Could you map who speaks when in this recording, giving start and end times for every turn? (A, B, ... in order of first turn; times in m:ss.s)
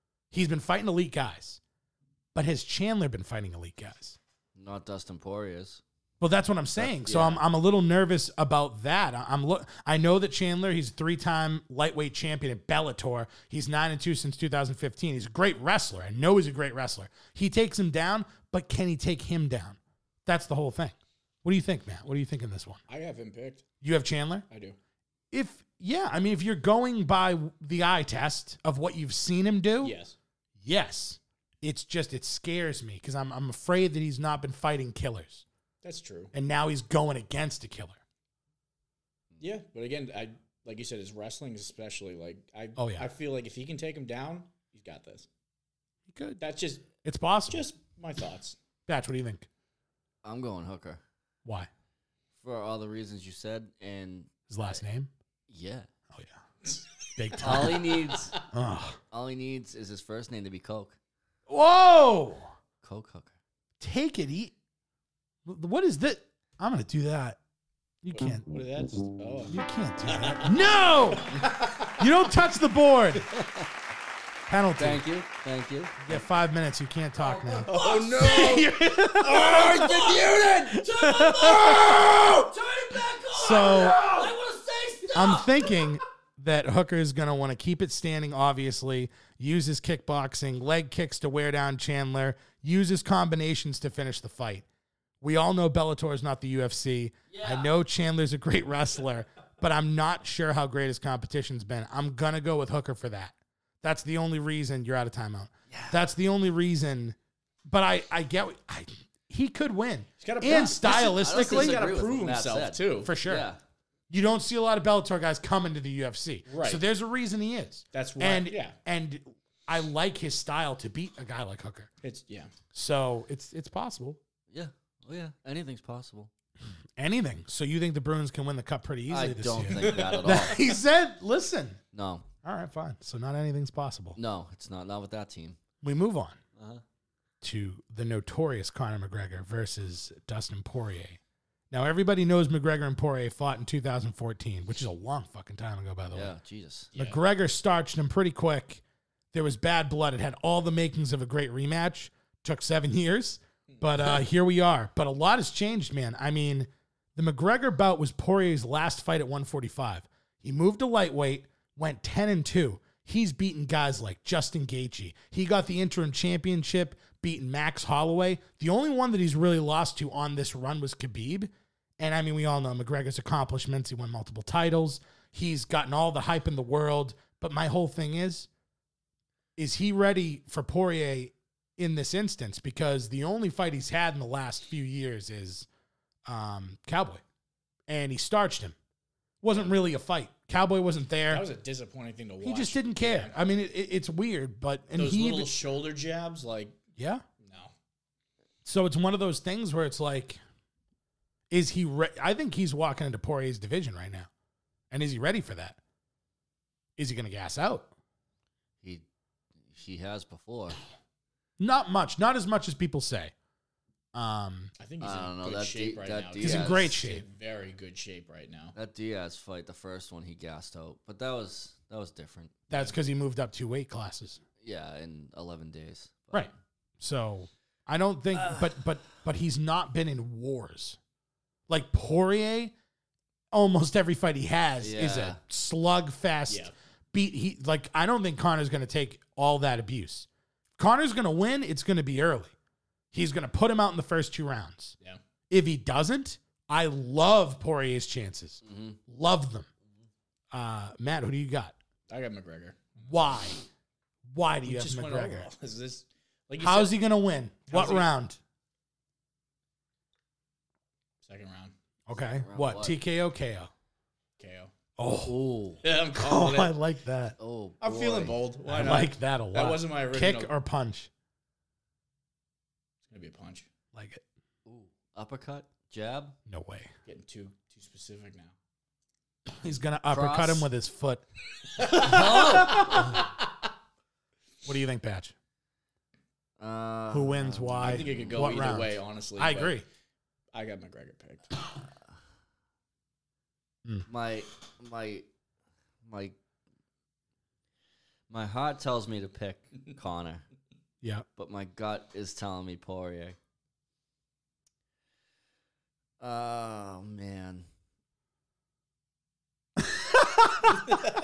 0:00.3-0:01.6 A
0:02.3-0:04.2 A
0:04.6-0:05.8 B
0:06.2-0:22.8 A
0:06.8-0:07.4 B
0:22.9-0:23.6 C
0:23.8-0:24.4 A
0:24.5-0:24.8 C
0:25.3-0:29.9 A
0:29.8-0:30.2 C
0:30.6-0:35.4 A
0:35.8-0:36.3 C
0:36.3-0:38.0 A
0:39.4-0:45.3 C
0:42.8-0:43.1 A
0:46.1-0:46.4 A
0:46.4-0:46.9 C
0:47.0-0:47.7 A
0:47.5-0:48.6 C
0:48.9-0:49.5 A
0:50.2-0:51.0 B
0:52.4-0:54.3 B
0:54.5-0:55.1 A
0:55.5-0:55.9 B
0:57.2-0:59.0 A
0:57.4-0:58.3 B
0:59.1-1:01.0 B
1:01.5-1:02.5 A
1:02.8-1:03.3 B
1:03.8-1:04.5 A
1:05.4-1:07.4 A
1:08.0-1:08.4 A
1:08.1-1:10.6 C
1:09.5-1:13.2 A
1:11.2-1:12.1 C
1:13.3-1:13.6 B
1:14.5-1:15.0 A
1:14.8-1:16.1 B
1:16.0-1:20.1 A
1:17.2-1:18.6 B
1:17.7-1:18.7 C
1:19.2-1:25.7 B
1:20.7-1:22.0 A
1:23.3-1:24.0 A
1:25.1-1:34.6 A
1:35.2-1:51.8 A
1:37.3-1:37.7 B
1:45.7-1:46.0 B
1:50.2-1:53.1 C
1:50.9-1:53.6 B
1:53.0-1:53.5 A
1:54.1-2:01.9 A
1:56.5-1:56.8 C
1:57.9-1:58.8 C
2:02.0-2:02.5 C
2:02.7-2:04.2 A
2:04.5-2:06.3 B
2:07.0-2:11.8 A
2:09.1-2:10.6 B
2:09.8-2:10.4 C
2:11.9-2:12.2 B
2:12.4-2:14.2 A
2:14.2-2:15.6 B
2:15.8-2:16.4 A
2:16.6-2:16.8 B
2:17.4-2:21.2 A
2:21.7-2:26.3 A
2:26.1-2:26.9 B
2:26.9-2:28.8 A
2:29.3-2:58.5 A
2:59.6-3:05.7 A
3:06.3-3:07.2 A
3:07.9-3:08.8 A
3:09.4-3:11.4 A
3:11.3-3:13.4 C
3:12.4-3:15.5 A
3:14.9-3:16.8 C
3:17.0-3:17.2 A
3:17.4-3:17.7 C
3:18.6-3:20.4 A
3:21.5-3:24.3 A
3:24.9-3:25.8 A
3:27.0-3:27.9 A
3:29.7-3:30.8 B
3:31.6-3:33.3 A
3:34.1-3:34.7 A
3:34.8-3:38.7 C
3:35.0-3:36.8 B
3:36.4-3:37.2 A
3:38.7-3:42.5 B
3:42.7-3:44.4 A
3:44.6-3:46.5 B
3:46.3-3:51.0 A
3:51.7-3:52.7 A
3:53.5-4:02.5 A
3:54.8-3:55.4 B
3:56.5-3:56.7 C
4:03.1-4:04.9 A
4:05.5-4:09.7 A
4:08.6-4:09.0 B
4:10.5-4:11.7 A
4:12.1-4:13.2 C
4:13.1-4:13.6 A
4:14.3-4:15.5 A
4:14.6-4:17.0 C
4:16.6-4:18.4 A
4:17.7-4:18.1 C
4:21.2-4:21.7 C
4:22.1-4:23.7 A
4:22.4-4:23.0 B
4:24.4-4:24.7 C
4:25.0-4:25.3 A
4:25.2-4:25.8 B
4:25.8-4:26.7 C
4:26.2-4:27.4 A
4:27.4-4:28.4 B
4:27.8-4:30.5 C
4:28.7-4:31.1 A
4:33.1-4:33.7 C
4:33.9-4:34.2 A
4:34.6-4:36.4 B
4:36.5-4:36.9 A
4:37.0-4:38.5 C
4:39.6-4:41.2 A
4:40.1-4:40.7 B
4:41.8-4:43.2 C
4:42.0-4:43.2 B
4:42.0-4:43.0 A
4:44.6-4:45.3 A
4:46.6-4:48.7 B
4:47.1-4:49.8 A
4:47.8-4:49.8 C
4:50.5-4:51.5 C
4:54.1-4:55.3 B
4:56.0-4:56.4 B
4:58.3-5:00.4 B
5:01.4-5:03.4 B
5:06.2-5:07.6 B
5:09.8-5:10.7 A